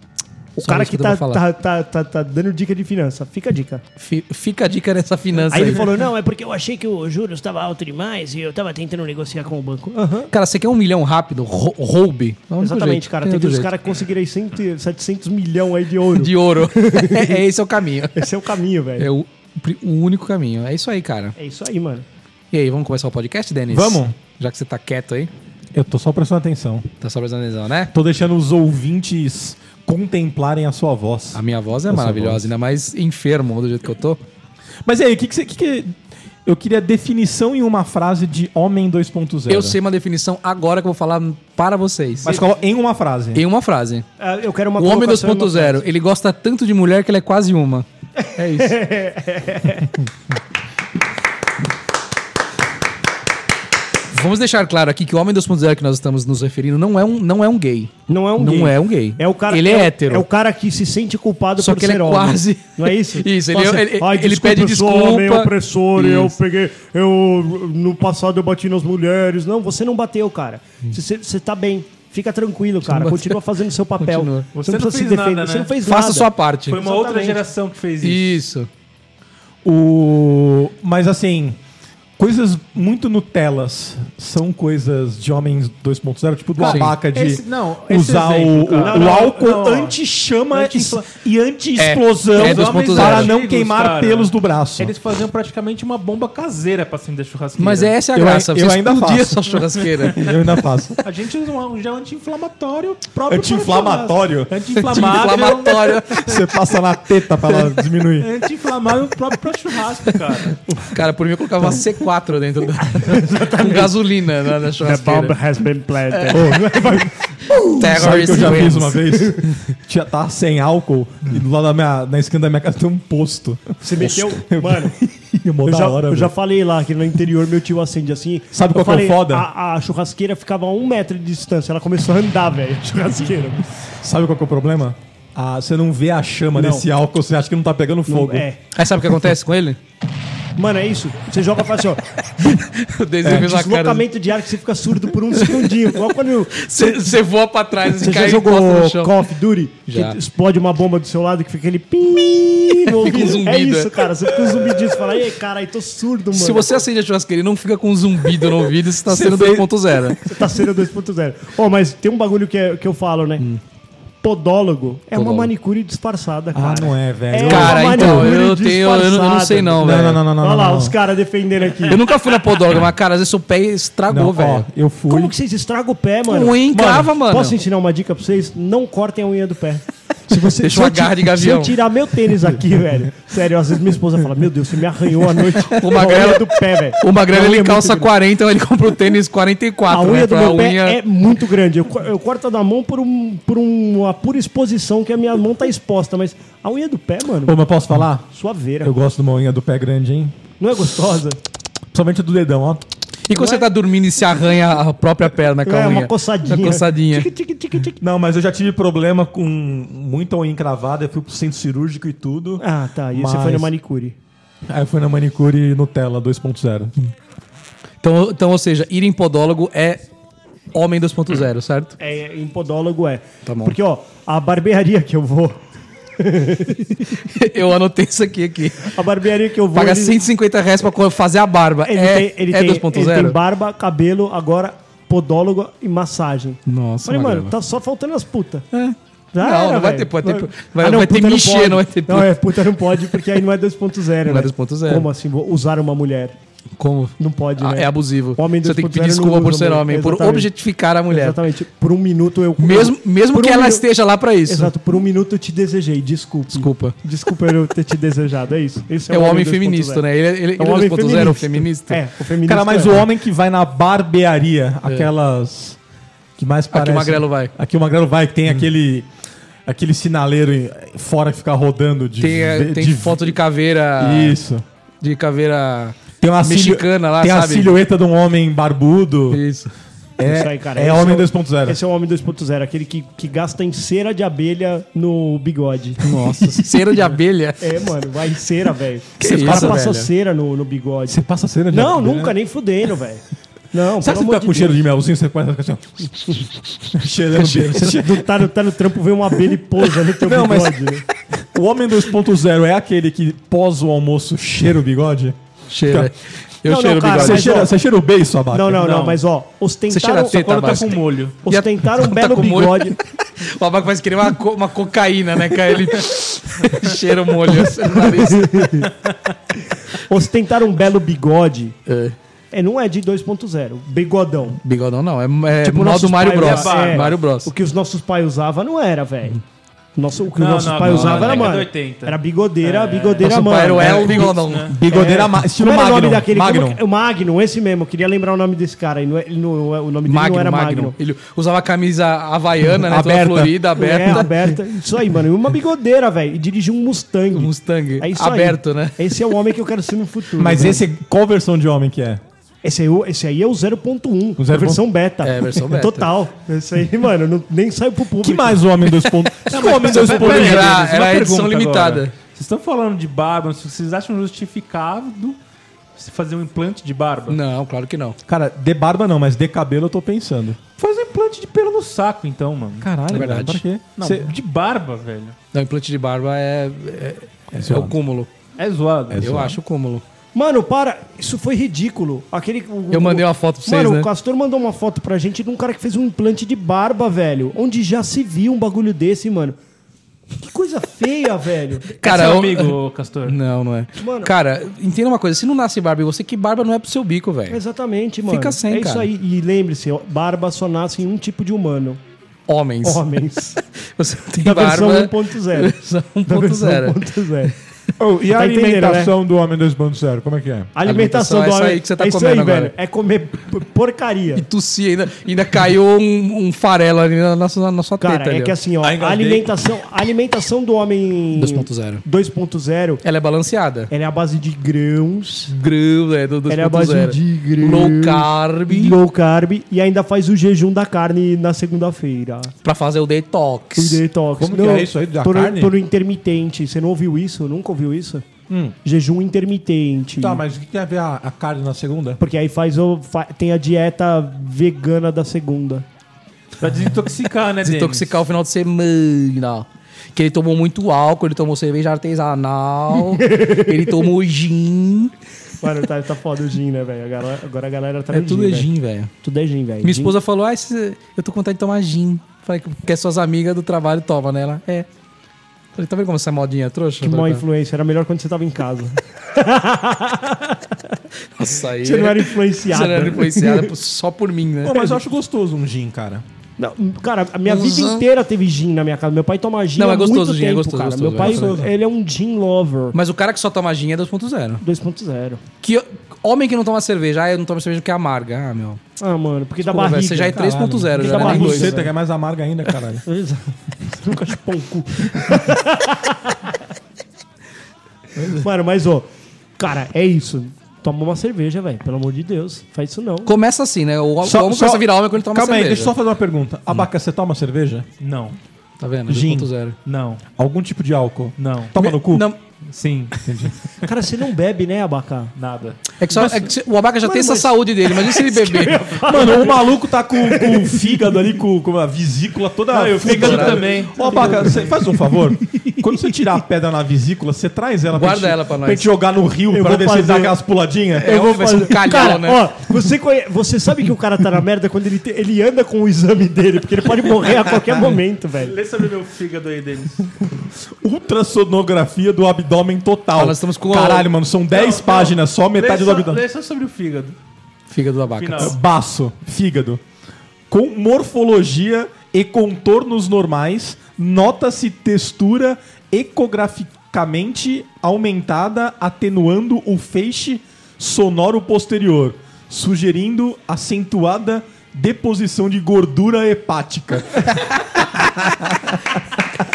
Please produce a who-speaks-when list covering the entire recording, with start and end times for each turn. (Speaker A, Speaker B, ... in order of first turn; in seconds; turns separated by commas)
Speaker A: 0.6-1.4, Speaker B: 0.6-3.8, Speaker A: 4.0-5.9, Speaker B: 5.5-10.3, Speaker A: 10.3-13.7, Speaker B: 12.6-17.4, Speaker A: 16.1-18.3, Speaker B: 18.1-19.1, Speaker A: 19.0-21.3, Speaker B: 21.4-22.1, Speaker A: 22.5-25.3, Speaker C: 23.7-24.1, Speaker C: 25.7-26.9, Speaker A: 27.0-27.9, Speaker C: 27.9-32.5, Speaker A: 31.3-34.2, Speaker C: 34.8-39.8, Speaker A: 39.5-42.4, Speaker C: 42.2-43.4, Speaker A: 43.3-44.0, Speaker B: 44.2-45.8, Speaker A: 44.8-48.8, Speaker B: 48.5-49.9, Speaker A: 54.1-60.2, Speaker B: 58.1-77.4, Speaker A: 61.6-66.4, Speaker A: 72.8-73.4, Speaker A: 74.0-74.5, Speaker D: 74.5-75.8, Speaker A: 75.8-76.8, Speaker D: 76.7-78.4, Speaker A: 78.0-78.7, Speaker C: 79.6-81.6, Speaker C: 82.2-94.9, Speaker D: 86.6-90.0, Speaker A: 86.6-87.0, Speaker B: 88.8-89.7, Speaker D: 90.5-91.1, Speaker A: 91.8-93.3, Speaker D: 92.3-98.0, Speaker A: 97.6-100.3, Speaker C: 98.1-99.5, Speaker D: 99.8-100.4, Speaker C: 100.1-101.0, Speaker D: 101.0-106.5, Speaker C: 103.3-105.1, Speaker A: 104.8-106.4, Speaker C: 106.2-108.3, Speaker D: 108.1-110.6, Speaker A: 110.8-115.3, Speaker B: 113.0-114.1, Speaker B: 114.8-118.7, Speaker C: 116.3-126.3, Speaker A: 117.8-119.2, Speaker B: 123.8-124.9, Speaker B: 125.6-133.6, Speaker C: 128.5-129.5, Speaker C: 134.0-138.4, Speaker B: 136.5-136.8, Speaker B: 138.1-138.6, Speaker A: 138.7-139.8, Speaker B: 140.6-142.7, Speaker A: 142.4-144.1, Speaker B: 143.2-147.2, Speaker A: 145.3-149.2, Speaker B: 147.8-156.8, Speaker A: 149.9-150.2, Speaker A: 152.8-154.0, Speaker A: 156.3-160.2, Speaker C: 159.1-159.9, Speaker B: 160.2-163.4, Speaker B: 164.2-169.8, Speaker A: 165.1-165.5, Speaker C: 166.5-168.4, Speaker A: 167.5-170.2, Speaker C: 169.8-170.9, Speaker B: 170.4-172.0, Speaker A: 171.9-174.7, Speaker C: 174.1-175.3, Speaker B: 175.1-188.1, Speaker A: 176.3-177.6, Speaker C: 176.7-177.1, Speaker A: 180.4-181.8, Speaker A: 185.5-191.0, Speaker B: 189.9-197.6, Speaker C: 197.4-198.2, Speaker B: 198.3-198.9, Speaker C: 198.8-200.3, Speaker B: 200.6-201.4, Speaker C: 201.9-202.8, Speaker A: 203.3-207.3, Speaker B: 203.3-203.7, Speaker B: 205.6-208.0, Speaker C: 208.0-213.7, Speaker B: 212.6-214.2, Speaker C: 214.7-216.9, Speaker A: 218.0-220.0, Speaker A: 220.7-221.9, Speaker B: 222.0-225.6, Speaker A: 223.4-223.7, Speaker B: 226.2-227.1, Speaker A: 227.2-228.9, Speaker B: 228.8-230.2, Speaker A: 229.7-233.3, Speaker B: 231.8-238.6, Speaker A: 236.7-237.5, Speaker A: 238.7-242.3, Speaker B: 239.3-246.4, Speaker A: 244.2-245.1, Speaker A: 246.8-251.4, Speaker B: 247.2-250.5, Speaker B: 251.1-253.8, Speaker A: 252.6-254.7, Speaker B: 254.5-260.0, Speaker A: 256.5-256.9, Speaker A: 259.1-262.0, Speaker B: 260.6-263.1, Speaker C: 262.4-265.8, Speaker C: 266.4-269.1, Speaker A: 266.7-267.5, Speaker C: 269.6-273.4, Speaker A: 272.2-274.4, Speaker C: 274.0-274.6, Speaker A: 275.0-277.7, Speaker C: 276.2-279.4, Speaker A: 279.3-279.7, Speaker C: 280.2-281.8, Speaker B: 280.2-286.0, Speaker A: 286.0-287.9, Speaker B: 287.6-294.8, Speaker A: 289.2-290.1, Speaker C: 289.2-289.8, Speaker C: 291.1-292.4, Speaker C: 294.0-298.2, Speaker A: 297.4-297.8, Speaker B: 297.7-301.1, Speaker C: 300.2-300.7, Speaker C: 301.5-306.1, Speaker A: 305.7-307.6, Speaker B: 306.6-307.7, Speaker C: 307.1-308.8, Speaker B: 308.5-310.4, Speaker D: 308.8-309.2, Speaker A: 309.9-318.9, Speaker D: 310.3-311.4, Speaker B: 311.4-313.0, Speaker D: 316.7-316.9, Speaker B: 317.9-318.9, Speaker B: 319.9-321.8, Speaker A: 321.9-322.1, Speaker B: 322.5-324.6, Speaker A: 324.6-327.5, Speaker B: 325.6-329.4, Speaker D: 326.3-327.2, Speaker B: 329.9-334.2, Speaker D: 330.4-333.4, Speaker A: 330.8-331.6, Speaker A: 333.2-334.8, Speaker C: 333.7-336.8, Speaker D: 334.2-334.7, Speaker B: 334.8-340.9, Speaker A: 340.1-344.5, Speaker C: 342.8-343.6, Speaker B: 343.8-350.8, Speaker A: 347.3-348.9, Speaker C: 350.4-352.2, Speaker B: 352.6-358.6, Speaker C: 354.4-354.8, Speaker A: 355.2-356.1, Speaker C: 358.2-360.9, Speaker A: 359.0-362.1, Speaker D: 359.5-365.4, Speaker D: 365.9-367.4, Speaker A: 367.3-368.2, Speaker C: 368.3-370.6, Speaker D: 370.8-373.1, Speaker C: 372.8-374.3, Speaker A: 373.1-373.6, Speaker D: 373.9-375.4, Speaker A: 375.5-378.3, Speaker C: 377.5-377.9, Speaker D: 378.6-379.3, Speaker C: 379.1-379.6, Speaker A: 379.2-380.0, Speaker B: 380.3-389.6, Speaker A: 382.9-384.1, Speaker B: 390.4-391.9, Speaker A: 392.0-397.6, Speaker D: 392.0-393.4, Speaker B: 394.0-394.3, Speaker B: 397.5-402.0, Speaker A: 398.3-399.1, Speaker A: 402.5-403.0, Speaker B: 402.8-403.6, Speaker A: 403.6-407.5, Speaker B: 404.4-405.8, Speaker B: 406.3-407.5, Speaker C: 408.0-410.7, Speaker B: 408.3-409.1, Speaker B: 410.7-414.4, Speaker A: 410.8-412.7, Speaker A: 414.4-418.5, Speaker B: 418.0-423.0, Speaker C: 418.8-419.5, Speaker A: 421.4-422.0, Speaker A: 423.0-423.9, Speaker B: 423.9-425.5, Speaker A: 425.5-429.0, Speaker B: 426.5-432.5, Speaker A: 432.6-434.0, Speaker B: 433.8-438.2, Speaker C: 434.4-435.7, Speaker C: 438.5-438.7, Speaker B: 438.8-440.4, Speaker C: 440.2-442.2, Speaker B: 442.2-445.9, Speaker D: 446.6-448.1, Speaker A: 447.6-455.1, Speaker B: 453.1-454.1, Speaker B: 455.6-458.7, Speaker A: 458.1-459.1, Speaker B: 459.2-460.1, Speaker A: 459.8-464.9, Speaker A: 465.8-467.4, Speaker B: 467.0-470.6, Speaker A: 471.4-474.8, Speaker B: 471.8-473.7, Speaker C: 474.6-476.2, Speaker B: 476.6-482.9, Speaker A: 477.4-478.0, Speaker A: 479.8-481.6, Speaker C: 481.2-481.7, Speaker A: 482.9-484.6, Speaker B: 484.6-485.4, Speaker A: 485.6-488.8, Speaker B: 489.0-491.9, Speaker A: 489.6-491.8, Speaker C: 490.3-493.0, Speaker B: 493.0-496.4, Speaker B: 498.3-503.3, Speaker A: 503.2-505.9, Speaker C: 504.2-507.9, Speaker D: 508.0-508.4, Speaker A: 508.8-509.8, Speaker C: 509.1-509.5, Speaker D: 509.9-510.2, Speaker C: 510.4-512.3, Speaker D: 511.4-511.7, Speaker A: 511.8-512.4, Speaker D: 512.7-513.2, Speaker C: 513.2-513.5, Speaker B: 513.8-515.3, Speaker D: 515.4-515.8, Speaker A: 516.0-518.9, Speaker B: 516.1-521.1, Speaker C: 519.0-531.1, Speaker D: 522.7-525.0, Speaker A: 523.0-523.7, Speaker B: 523.8-524.9, Speaker A: 527.9-528.9, Speaker B: 529.5-530.4, Speaker B: 531.0-538.5, Speaker A: 531.0-532.5, Speaker D: 538.4-540.3, Speaker C: 540.8-546.2, Speaker A: 543.1-544.1, Speaker D: 544.5-547.2, Speaker A: 547.7-548.6, Speaker D: 548.2-548.6, Speaker C: 548.4-549.8, Speaker C: 550.5-568.8